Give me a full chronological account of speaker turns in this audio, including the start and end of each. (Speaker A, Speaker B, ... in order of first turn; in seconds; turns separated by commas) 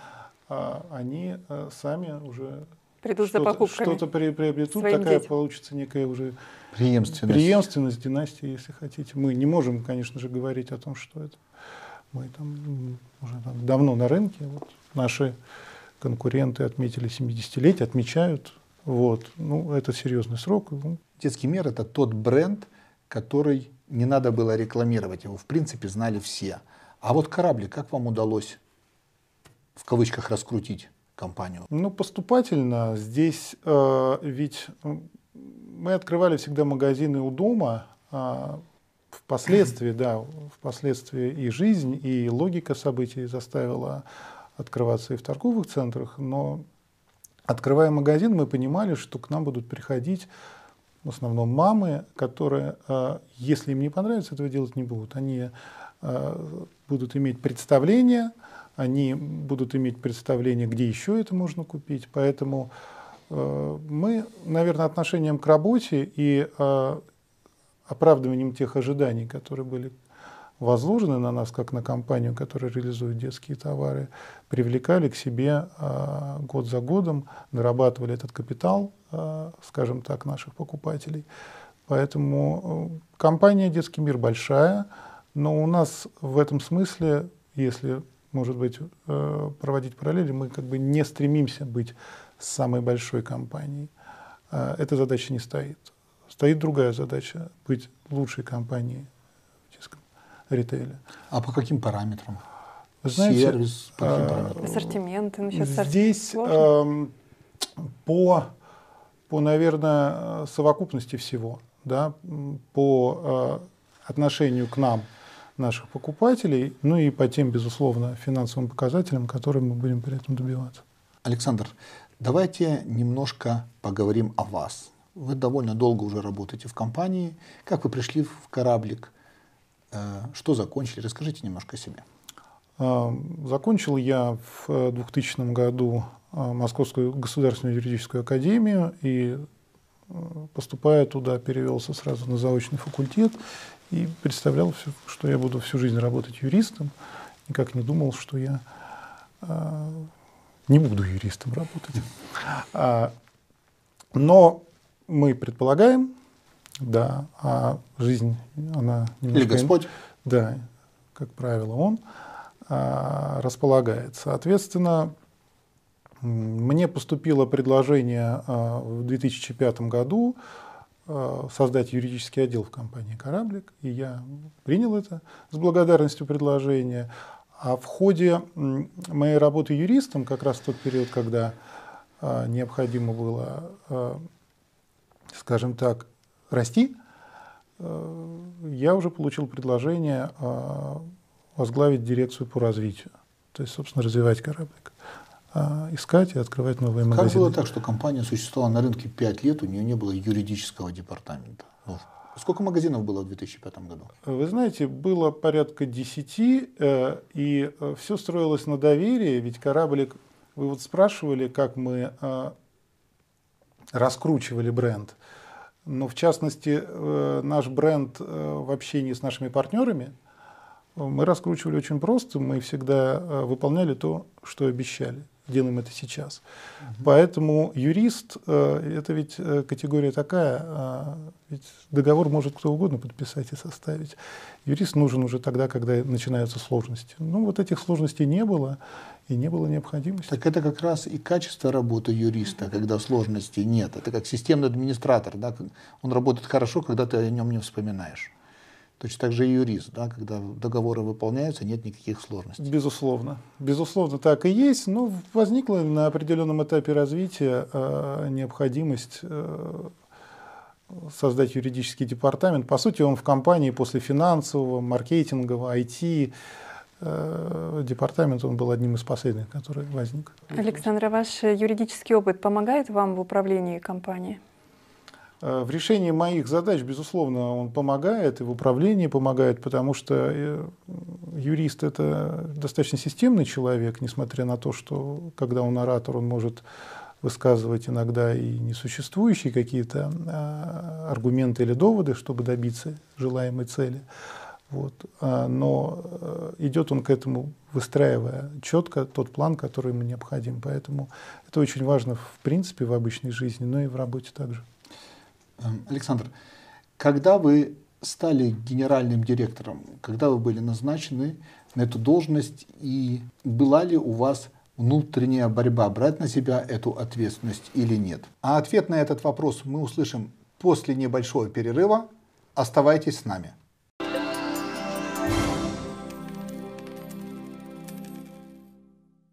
Speaker A: 0.5-2.7, Speaker B: 3.0-4.1, Speaker A: 3.2-6.4, Speaker B: 4.8-5.3, Speaker C: 6.7-7.7, Speaker A: 7.2-11.4, Speaker A: 12.1-15.3, Speaker A: 16.0-21.0, Speaker C: 21.2-28.6, Speaker C: 29.8-31.7, Speaker A: 31.7-38.6, Speaker A: 39.3-44.0, Speaker A: 44.6-46.6, Speaker A: 47.5-50.3, Speaker A: 51.0-62.7, Speaker A: 63.3-67.0, Speaker A: 67.9-70.0, Speaker A: 70.6-81.3, Speaker A: 81.9-93.9, Speaker A: 94.5-99.1, Speaker A: 99.7-101.0, Speaker C: 101.3-102.4, Speaker A: 103.0-105.0, Speaker C: 103.1-104.7, Speaker B: 104.6-106.7, Speaker A: 105.5-107.1, Speaker A: 107.8-108.5, Speaker A: 109.3-120.8, Speaker C: 121.2-129.1, Speaker C: 129.9-132.1, Speaker A: 132.8-139.5, Speaker A: 140.1-143.4, Speaker A: 143.9-146.9, Speaker A: 147.5-148.6, Speaker A: 149.4-150.1, Speaker A: 150.7-153.1, Speaker A: 154.2-156.1, Speaker A: 156.8-162.0, Speaker C: 159.3-159.9, Speaker A: 162.7-165.1, Speaker A: 166.2-170.4, Speaker A: 171.1-181.6, Speaker A: 182.2-184.3, Speaker A: 185.3-186.9, Speaker A: 187.8-194.9, Speaker A: 195.5-197.6, Speaker C: 197.1-204.1, Speaker A: 204.2-212.6, Speaker A: 213.9-215.2, Speaker A: 215.9-220.2, Speaker A: 221.0-226.4, Speaker A: 227.0-240.3, Speaker C: 240.3-248.3, Speaker C: 249.0-252.7, Speaker A: 252.6-259.9, Speaker A: 260.9-266.3, Speaker A: 267.0-270.9, Speaker B: 270.5-274.4, Speaker A: 275.4-286.6, Speaker A: 287.2-294.0, Speaker A: 294.7-304.6, Speaker C: 305.6-306.3, Speaker C: 307.0-323.6